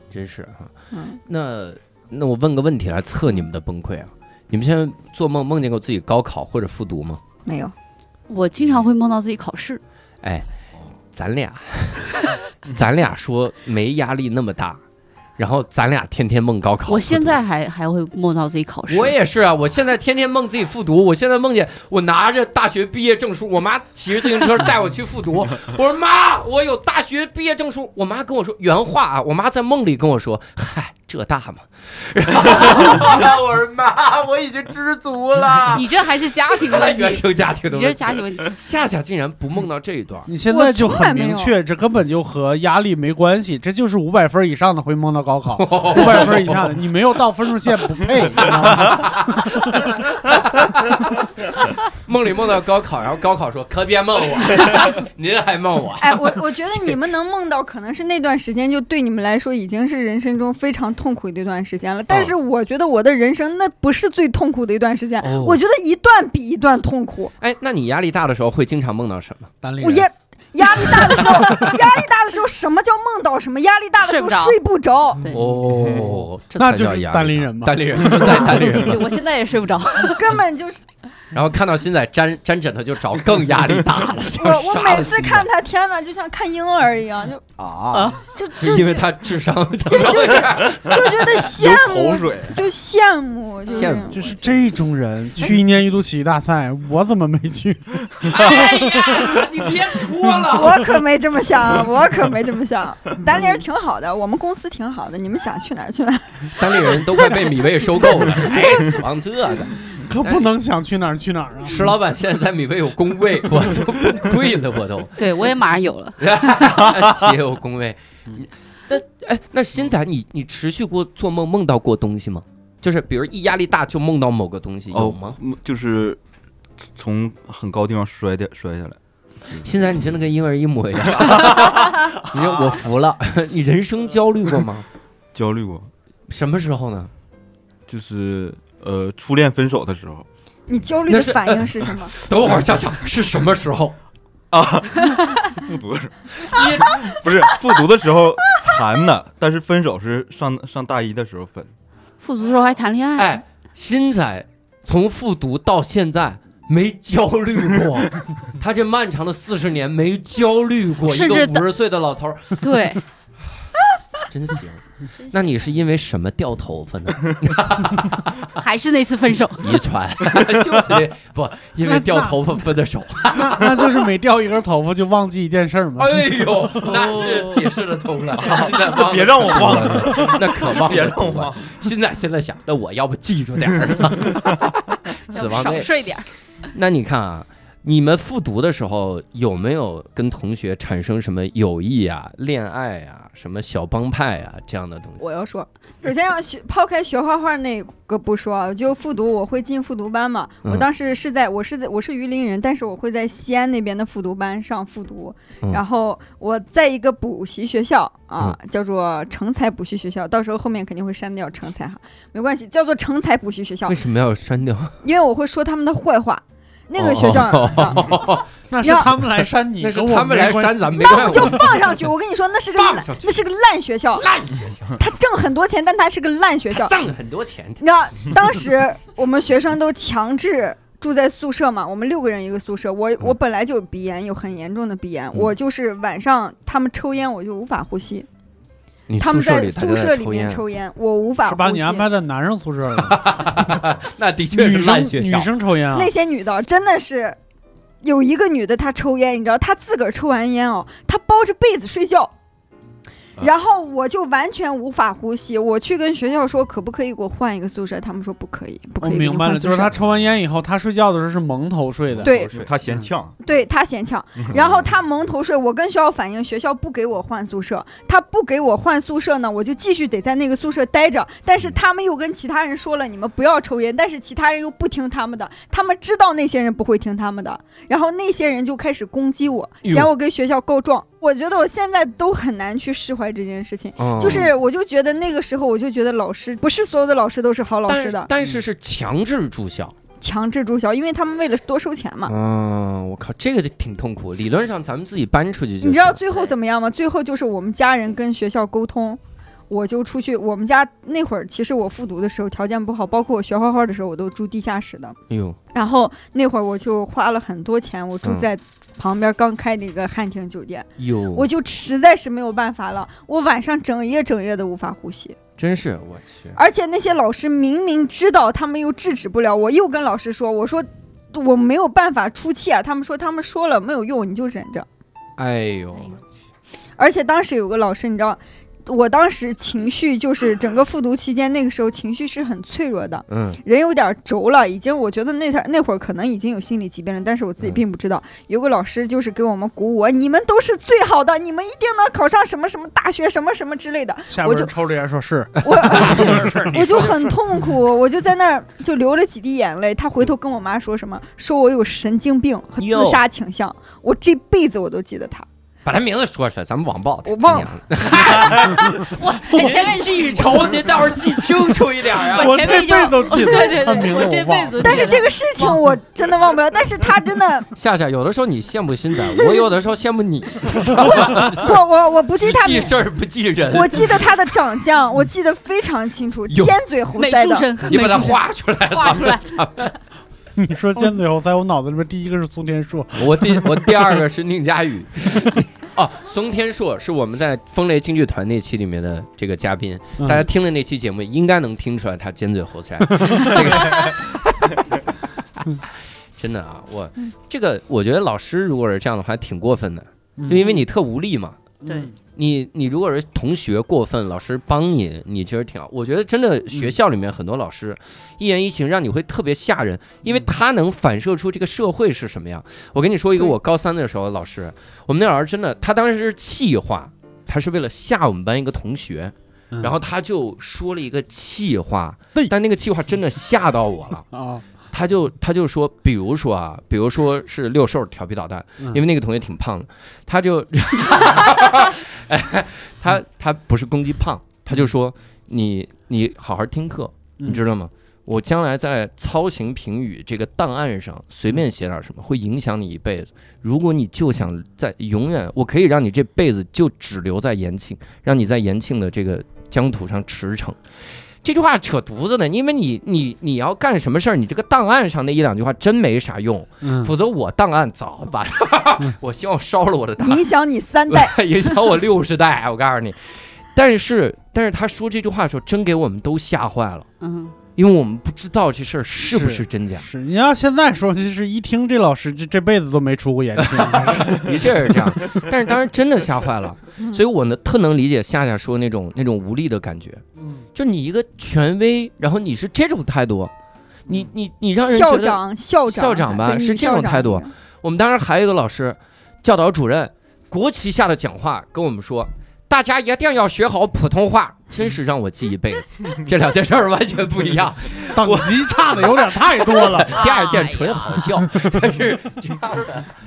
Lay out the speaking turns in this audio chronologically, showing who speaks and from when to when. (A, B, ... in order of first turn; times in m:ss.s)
0:00.1-0:00.7 A
0:00.9-0:01.2 B
0:01.3-0:07.2 A
0:07.5-0:07.7 B
0:08.3-0:09.8 C
0:10.2-0:10.5 A
0:11.1-0:14.8 A
0:15.4-0:17.4 A
0:16.9-0:19.2 C
0:18.9-0:40.3 A
0:35.7-0:38.6 C
0:40.3-0:49.9 D
0:40.5-0:41.6 B
0:45.6-0:46.7 A
0:48.4-0:56.4 A
0:56.0-1:07.3 B
1:05.2-1:05.6 A
1:07.4-1:09.5 A
1:09.6-1:10.1 D
1:09.8-1:15.3 B
1:14.0-1:14.6 C
1:15.3-1:18.8 D
1:15.3-1:19.2 A
1:18.5-1:20.4 C
1:20.0-1:20.8 B
1:21.3-1:25.5 A
1:24.3-1:27.5 B
1:27.9-1:28.2 C
1:28.3-1:29.1 B
1:28.6-1:31.3 A
1:29.9-1:34.4 B
1:31.4-1:32.6 E
1:33.7-1:34.5 A
1:34.1-1:39.3 D
1:38.2-1:40.9 A
1:40.5-1:48.6 B
1:46.6-1:50.5 A
1:49.9-1:51.9 D
1:51.6-1:55.2 A
1:55.2-1:57.0 C
1:56.2-2:05.4 A
2:04.9-2:06.2 E
2:06.9-2:09.0 E
2:09.6-2:14.9 A
2:15.3-2:15.9 E
2:16.3-2:17.1 A
2:17.9-2:20.3 E
2:20.7-2:22.1 B
2:21.1-2:24.0 A
2:24.5-2:31.7 E
2:26.4-2:27.1 A
2:32.2-2:33.4 C
2:33.2-2:42.6 A
2:41.0-2:41.7 C
2:42.6-2:43.0 C
2:44.3-2:48.5 A
2:48.6-2:49.8 C
2:49.6-2:54.1 A
2:51.9-2:52.4 D
2:53.3-2:56.9 D
2:56.0-3:05.9 A
2:56.8-2:57.7 C
2:58.4-3:01.7 E
3:05.3-3:06.3 C
3:06.7-3:15.2 A
3:15.2-3:34.0 B
3:33.9-3:35.0 A
3:35.0-3:38.3 B
3:37.0-3:38.5 A
3:38.7-3:41.1 D
3:38.8-3:39.1 B
3:39.8-3:41.9 A
3:41.0-3:44.3 B
3:42.8-3:43.4 A
3:44.2-3:45.0 A
3:45.0-3:47.0 B
3:46.7-3:47.8 A
3:47.8-3:58.3 B
3:59.1-4:00.6 A
3:59.2-4:02.1 B
4:01.4-4:03.8 D
4:03.0-4:05.5 A
4:04.5-4:06.1 D
4:05.9-4:07.4 B
4:08.0-4:12.3 B
4:13.4-4:19.9 B
4:19.0-4:22.3 D
4:22.1-4:22.7 A
4:22.2-4:22.5 B
4:22.5-4:23.4 E
4:23.4-4:48.3 B
4:44.0-4:44.6 A
4:47.9-4:50.0 A
4:50.2-4:52.3 B
4:52.3-4:56.2 A
4:55.8-5:05.2 B
5:05.3-5:05.6 A
5:05.7-5:15.4 B
5:11.0-5:11.4 A
5:15.6-5:16.6 A
5:16.6-5:24.9 B
5:25.4-5:26.2 A
5:27.0-5:44.7 B
5:33.3-5:33.6 A
5:44.3-5:47.1 D
5:45.6-5:55.5 B
5:45.8-5:47.3 A
5:52.8-5:53.2 A
5:55.8-6:02.9 A
5:57.3-5:57.8 B
5:58.4-6:00.8 C
6:02.3-6:05.8 C
6:02.3-6:05.2 D
6:03.3-6:04.2 B
6:04.8-6:07.7 B
6:07.8-6:11.8 A
6:09.2-6:09.6 B
6:11.0-6:13.0 B
6:12.4-6:14.3 A
6:13.7-6:17.8 B
6:16.5-6:16.8 A
6:17.2-6:19.6 C
6:17.8-6:20.0 A
6:20.6-6:24.0 D
6:23.2-6:35.0 A
6:30.2-6:30.5 D
6:36.4-6:41.6 A
6:40.4-6:40.7 D
6:41.8-6:42.2 D
6:42.4-7:04.3 A
6:50.2-6:50.5 D
7:04.3-7:04.6 D
7:04.9-7:30.8 A
7:31.4-7:40.5 A
7:36.8-7:37.1 D
7:40.2-7:41.4 B
7:41.1-7:47.1 A
7:47.2-7:47.6 C
7:47.8-7:50.1 A
7:49.2-7:54.9 D
7:53.6-8:00.2 A
8:00.8-8:03.5 A
8:04.1-8:23.1 A
8:04.8-8:07.5 B
8:18.1-8:20.2 D
8:20.1-8:21.3 C